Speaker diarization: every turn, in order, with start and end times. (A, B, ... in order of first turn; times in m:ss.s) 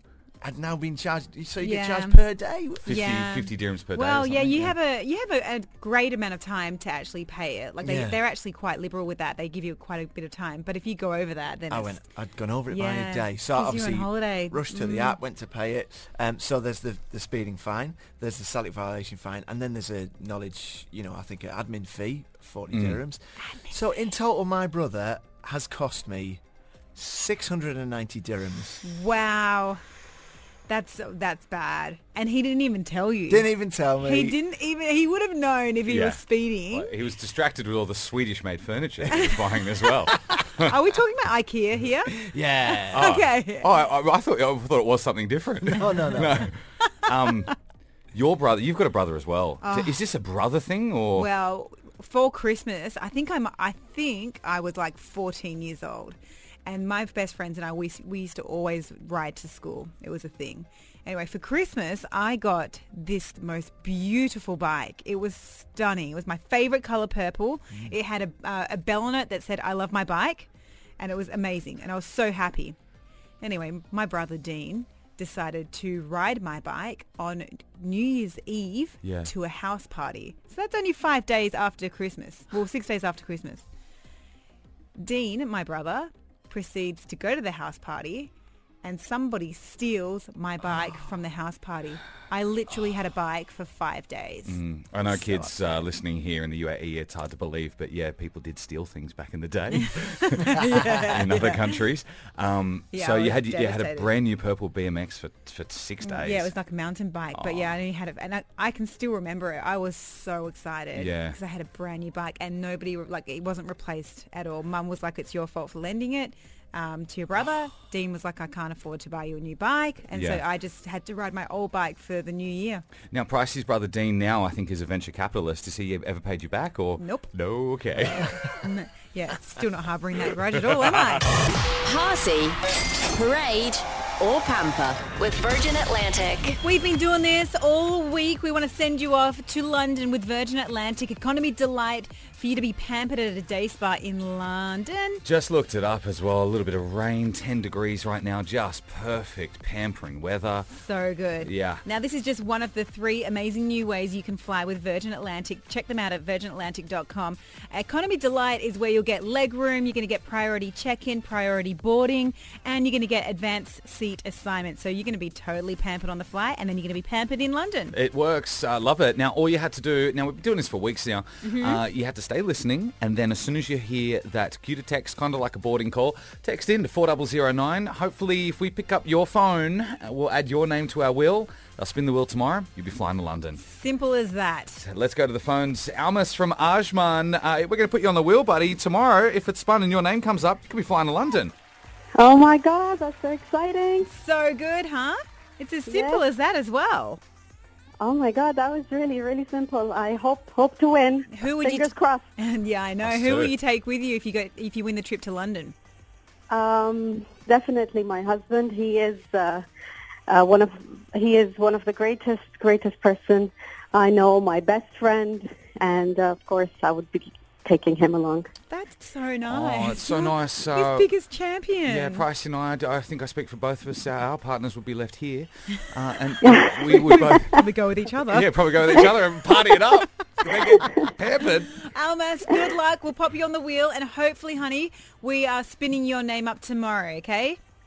0:00.4-0:03.0 A
0:01.6-0:02.2 B
0:02.8-0:04.8 C
0:02.9-0:12.0 B
0:07.8-0:08.2 A
0:11.7-0:26.4 A
0:12.7-0:15.2 B
0:22.7-0:23.0 C
0:27.0-0:28.8 A
0:28.8-0:29.8 B
0:30.7-0:33.5 B
0:33.3-0:34.4 A
0:34.0-0:36.9 B
0:35.9-0:40.7 C
0:39.0-0:39.4 B
0:40.0-0:42.2 B
0:42.2-0:43.1 A
0:42.9-0:47.5 C
0:42.9-0:43.7 B
0:45.8-0:46.5 A
0:48.2-0:51.3 C
0:49.6-0:50.0 B
0:51.2-1:12.8 B
1:13.4-1:23.6 B
1:19.0-1:19.3 C
1:25.0-1:28.3 B
1:28.8-1:35.6 B
1:34.5-1:46.5 C
1:40.3-1:41.7 B
1:42.9-1:44.1 B
1:46.0-2:02.8 B
1:47.3-1:47.8 C
1:50.9-1:51.4 C
2:00.1-2:00.4 C
2:03.1-2:08.3 C
2:07.0-2:07.3 B
2:08.6-2:11.3 B
2:11.9-2:12.6 D
2:13.2-2:16.5 D
2:16.6-2:25.2 B
2:25.2-2:30.7 C
2:30.7-2:48.0 B
2:31.4-2:31.8 C
2:47.9-3:03.6 C
2:51.4-2:51.8 B
3:03.6-3:04.8 B
3:04.8-3:11.5 C
3:12.2-3:14.1 E
3:14.0-3:17.2 B
3:15.9-3:16.2 E
3:18.0-3:22.2 E
3:21.3-3:25.7 B
3:23.0-3:23.5 C
3:26.5-3:29.6 E
3:30.3-3:38.5 E
3:38.7-3:42.2 B
3:39.5-3:41.1 C
3:41.9-3:47.6 C
3:46.4-3:47.4 E
3:47.5-3:49.0 B
3:48.3-3:51.8 C
3:51.8-3:57.6 B